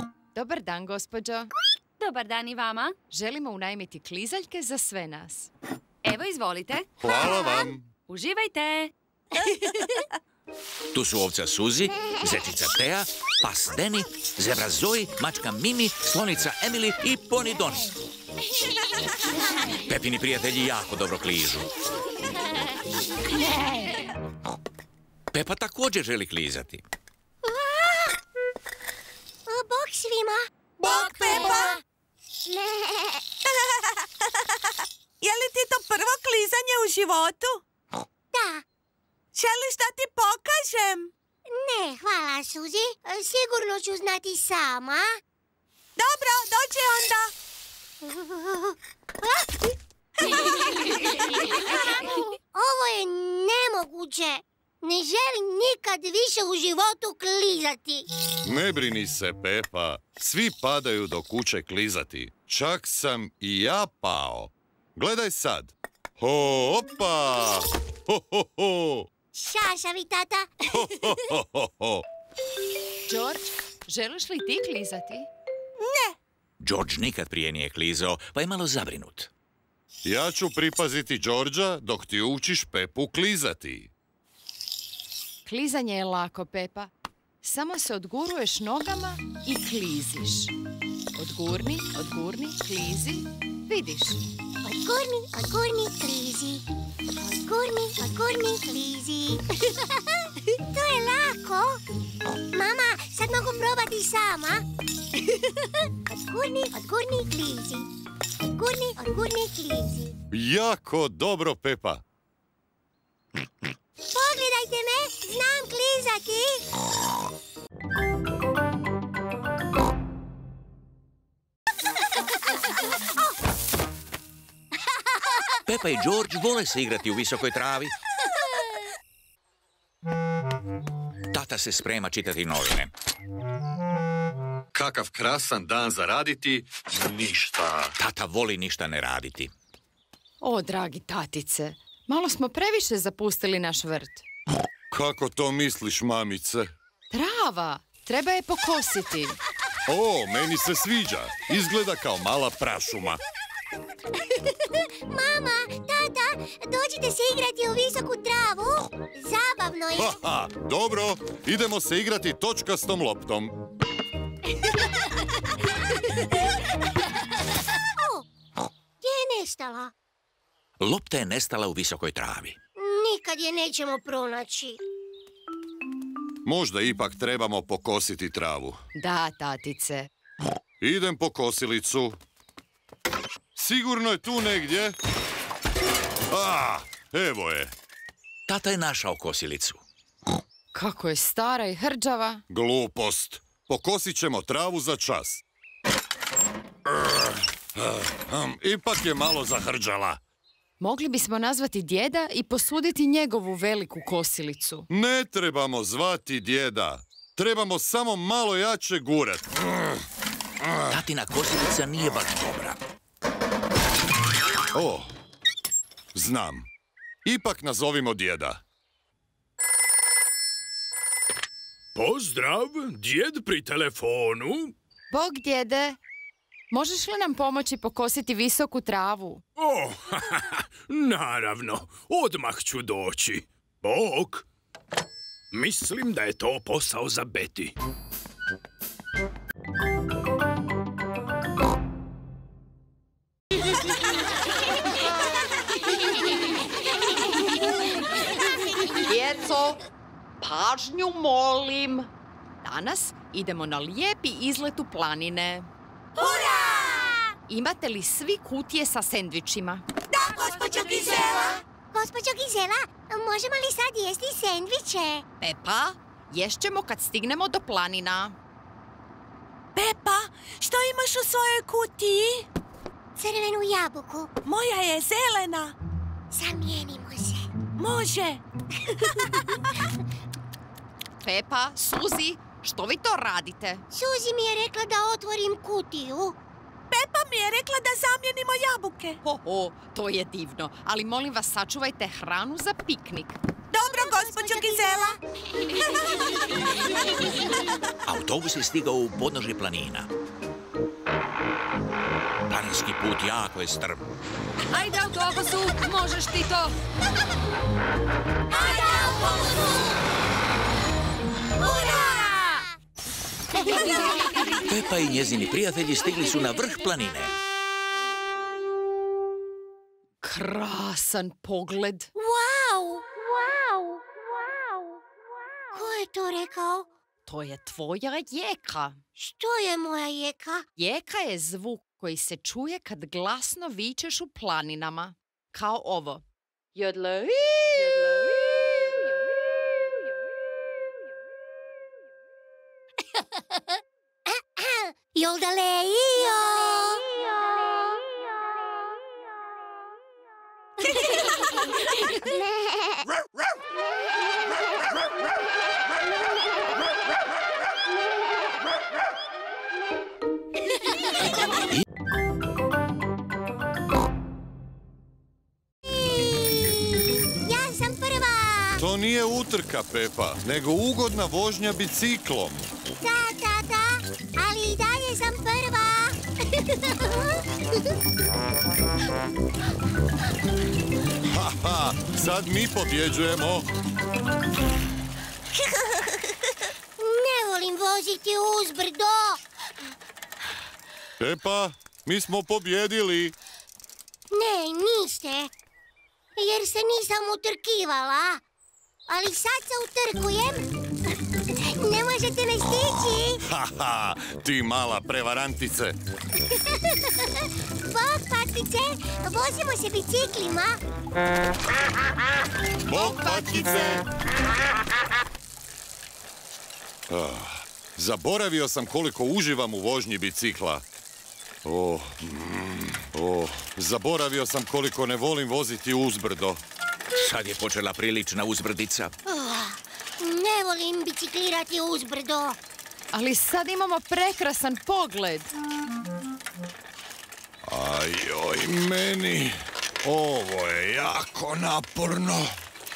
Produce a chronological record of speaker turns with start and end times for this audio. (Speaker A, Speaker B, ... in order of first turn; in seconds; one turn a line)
Speaker A: 0.3-1.5
Speaker B: 2.0-3.0
Speaker A: 3.1-5.5
Speaker B: 6.0-7.1
Speaker C: 7.0-7.9
Speaker B: 8.1-8.9
Speaker D: 10.9-17.9
Speaker D: 19.9-21.7
Speaker D: 25.3-26.8
Speaker E: 27.5-28.1
Speaker E: 29.5-31.8
Speaker F: 30.8-31.8
Speaker E: 32.5-33.2
Speaker F: 33.7-34.2
Speaker F: 35.2-37.6
Speaker E: 38.3-38.6
Speaker F: 39.3-41.1
Speaker E: 41.5-45.1
Speaker F: 46.0-47.3
Speaker E: 48.0-48.7
Speaker F: 50.2-50.8
Speaker E: 51.7-58.1
Speaker C: 58.4-69.1
Speaker E: 69.3-70.5
Speaker C: 70.7-72.0
Speaker A: 73.1-75.3
Speaker F: 75.8-76.1
Speaker D: 76.6-79.3
Speaker C: 80.0-83.9
Speaker A: 85.5-86.9
Speaker A: 87.4-90.5
Speaker A: 91.1-94.2
Speaker E: 94.6-96.6
Speaker E: 97.2-99.7
Speaker E: 100.7-101.8
Speaker E: 102.5-104.6
Speaker E: 106.1-107.9
Speaker E: 108.5-110.1
Speaker C: 110.3-112.0
Speaker E: 114.1-116.6
Speaker D: 125.7-127.9
Speaker D: 131.3-132.9
Speaker C: 134.7-137.9
Speaker D: 138.0-139.5
Speaker A: 140.4-144.2
Speaker C: 144.9-146.7
Speaker A: 147.1-149.4
Speaker C: 149.9-153.2
Speaker E: 155.1-160.2
Speaker C: 160.0-163.5
Speaker E: 168.0-168.2
Speaker E: 169.0-169.9
Speaker D: 170.8-172.6
Speaker E: 172.8-174.8
Speaker C: 176.4-178.8
Speaker A: 178.9-180.1
Speaker C: 180.8-182.2
Speaker C: 183.5-184.9
Speaker C: 186.3-187.7
Speaker D: 188.5-189.8
Speaker A: 190.7-192.4
Speaker C: 192.5-195.4
Speaker C: 196.9-200.2
Speaker A: 200.8-204.9
Speaker C: 204.9-209.9
Speaker D: 210.9-212.8
Speaker C: 212.0-212.3
Speaker C: 214.7-215.1
Speaker C: 216.1-216.7
Speaker C: 217.2-218.6
Speaker G: 221.9-224.7
Speaker A: 225.1-226.0
Speaker A: 226.7-229.4
Speaker G: 229.6-234.4
Speaker G: 235.5-237.7
Speaker A: 249.0-249.8
Speaker A: 250.4-252.1
Speaker A: 252.6-255.7
Speaker F: 256.2-257.1
Speaker E: 256.3-257.1
Speaker A: 257.5-259.8
Speaker F: 260.1-261.6
Speaker E: 261.0-261.3
Speaker E: 261.9-265.2
Speaker A: 265.4-268.4
Speaker F: 269.8-272.4
Speaker E: 273.2-274.3
Speaker F: 274.4-275.7
Speaker E: 276.3-277.5
Speaker F: 277.8-278.4
Speaker F: 279.1-279.5
Speaker A: 281.2-283.8
Speaker E: 283.9-286.4
Speaker F: 286.9-289.2
Speaker A: 289.2-293.4
Speaker F: 293.7-295.2
Speaker E: 293.8-295.2
Speaker D: 298.0-300.1
Speaker D: 302.5-304.0
Speaker B: 304.7-306.7
Speaker E: 308.5-309.9
Speaker E: 311.6-312.7
Speaker D: 314.6-317.3
Speaker A: 320.2-322.1
Speaker E: 322.1-324.0
Speaker E: 325.7-326.9
Speaker A: 327.2-329.0
Speaker E: 329.2-330.6
Speaker A: 330.8-336.2
Speaker B: 336.8-338.1
Speaker E: 344.3-347.2
Speaker E: 365.9-368.8
Speaker C: 368.8-372.7
Speaker E: 373.0-377.4
Speaker C: 381.2-383.7
Speaker E: 387.0-389.4
Speaker C: 391.2-393.3
Speaker E: 394.3-395.5
Speaker E: 396.4-398.4
Speaker E: 399.1-400.7
Speaker E: 401.6-403.4
Speaker C: 403.4-405.9
Speaker E: 407.9-410.8
Speaker C: 412.8-414.1
Speaker E: 413.0-413.6
Speaker C: 417.1-420.8
Speaker C: 421.6-426.6
Speaker D: 427.1-429.1
Speaker E: 429.3-432.6
Speaker A: 433.1-435.5
Speaker C: 437.7-442.5